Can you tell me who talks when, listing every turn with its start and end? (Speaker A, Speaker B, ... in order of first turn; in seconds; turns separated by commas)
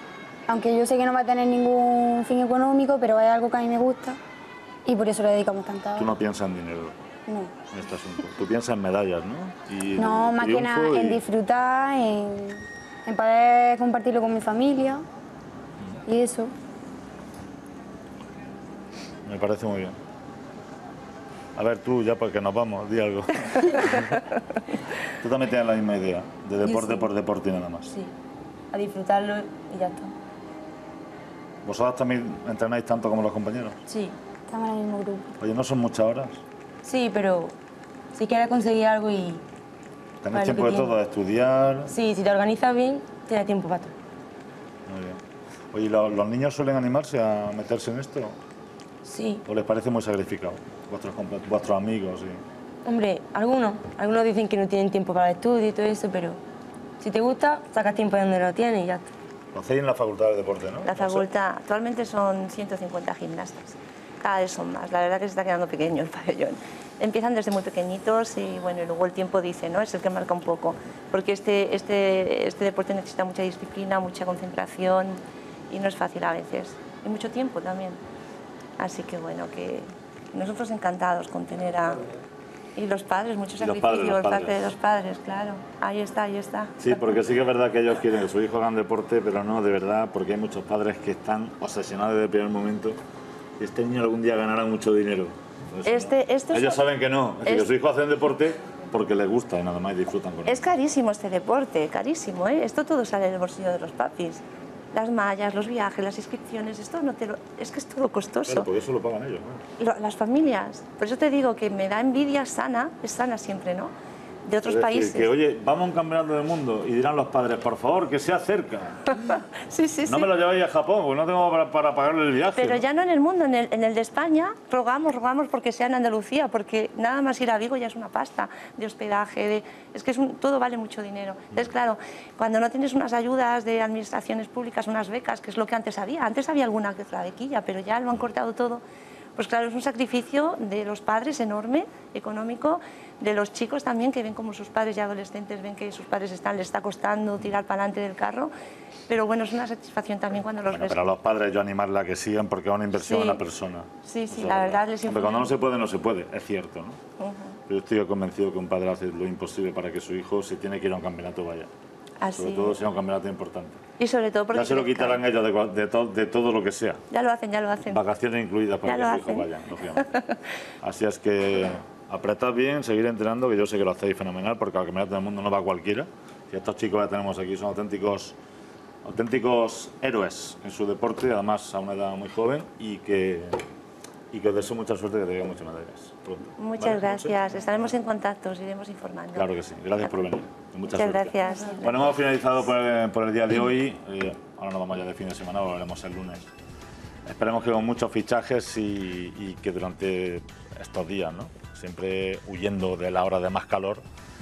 Speaker A: 0.5-4.2, Speaker A: 4.8-6.1, Speaker B: 6.0-7.0, Speaker A: 7.3-7.5, Speaker B: 7.7-11.2, Speaker A: 9.9-15.0, Speaker A: 16.1-16.5, Speaker B: 19.2-20.0, Speaker B: 21.6-24.2, Speaker B: 25.2-27.9, Speaker C: 26.6-27.1, Speaker C: 28.7-30.1, Speaker B: 31.6-33.8, Speaker C: 33.9-34.1, Speaker A: 34.5-35.3, Speaker B: 35.4-36.4, Speaker C: 36.8-37.5, Speaker C: 38.1-39.4, Speaker B: 40.2-41.9, Speaker C: 40.3-41.0, Speaker C: 41.9-43.9, Speaker B: 44.9-45.2, Speaker B: 45.7-48.4, Speaker C: 49.0-49.4, Speaker B: 49.4-52.4, Speaker C: 52.8-56.4, Speaker C: 57.0-59.1, Speaker B: 59.5-61.3, Speaker D: 60.8-78.0, Speaker D: 78.8-82.0, Speaker D: 82.8-86.8, Speaker B: 83.6-84.7, Speaker B: 86.8-93.0, Speaker B: 93.6-100.6, Speaker D: 95.8-96.8, Speaker D: 97.4-97.7, Speaker D: 100.5-108.7, Speaker B: 108.5-109.6, Speaker D: 109.8-113.9, Speaker D: 114.4-115.3, Speaker B: 114.6-119.1, Speaker D: 119.1-120.3, Speaker B: 120.0-122.8, Speaker D: 122.5-138.8, Speaker D: 139.3-148.5, Speaker D: 149.1-151.0, Speaker B: 150.7-157.0, Speaker D: 152.9-153.4, Speaker D: 154.0-155.5, Speaker D: 157.2-157.6, Speaker B: 157.7-161.7, Speaker D: 162.2-162.8, Speaker B: 162.3-163.8, Speaker D: 164.0-165.2, Speaker B: 164.5-167.0, Speaker D: 167.1-168.0, Speaker B: 167.9-170.1, Speaker D: 168.8-170.4, Speaker B: 170.8-178.4, Speaker B: 179.0-183.6, Speaker B: 184.3-187.8, Speaker D: 186.6-189.5, Speaker B: 189.3-196.5, Speaker D: 190.9-192.1, Speaker B: 197.2-204.0